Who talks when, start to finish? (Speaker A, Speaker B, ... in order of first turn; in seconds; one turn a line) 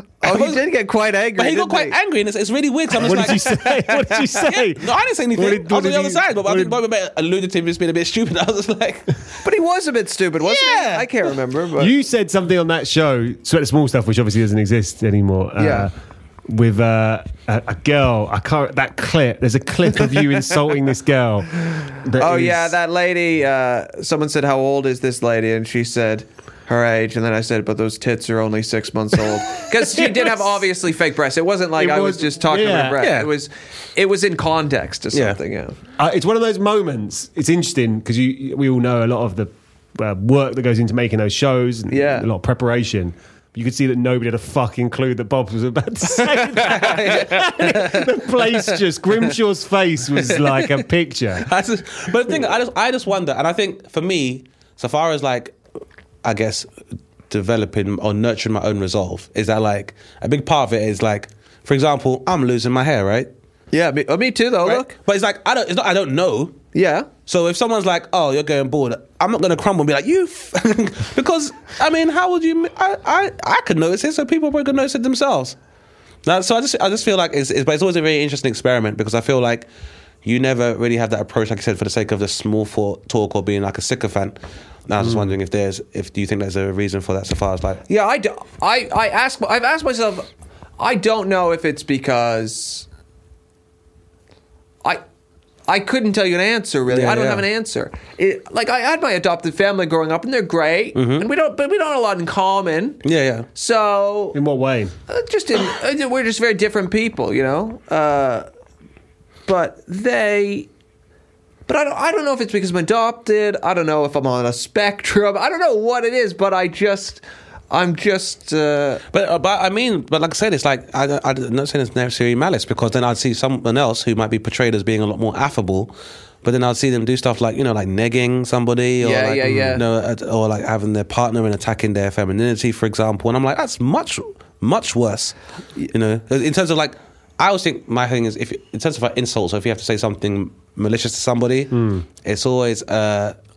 Speaker A: 0.2-1.9
Speaker B: 0.2-0.6
Speaker B: 1.4-9.2
Speaker C: 3.0-6.8
Speaker A: 9.4-11.9
Speaker B: 10.4-11.2
Speaker C: 11.8-15.9
Speaker A: 15.6-15.9
Speaker C: 16.5-22.7
Speaker A: 22.2-35.8
Speaker C: 29.7-30.4
Speaker C: 31.8-33.0
Speaker B: 33.0-33.3
Speaker B: 35.1-35.4
Speaker C: 36.0-51.5
Speaker A: 41.9-42.2
Speaker B: 46.6-48.8
Speaker B: 50.1-50.8
Speaker B: 51.4-55.5
Speaker B: 56.2-56.7
Speaker B: 57.3-63.3
Speaker A: 63.7-64.9
Speaker B: 64.6-66.6
Speaker A: 66.7-67.1
Speaker B: 67.3-75.5
Speaker B: 76.2-79.7
Speaker B: 80.2-84.4
Speaker B: 84.9-87.8
Speaker A: 87.9-90.3
Speaker A: 90.8-92.8
Speaker A: 95.7-103.0
Speaker B: 96.9-97.4
Speaker B: 100.9-101.3
Speaker B: 103.0-103.5
Speaker A: 103.5-104.4
Speaker C: 104.3-104.9
Speaker A: 105.1-108.5
Speaker A: 109.5-110.7
Speaker A: 111.7-119.0
Speaker B: 119.1-135.3
Speaker A: 129.0-129.8
Speaker C: 129.5-129.8
Speaker B: 135.9-143.3
Speaker C: 141.7-142.0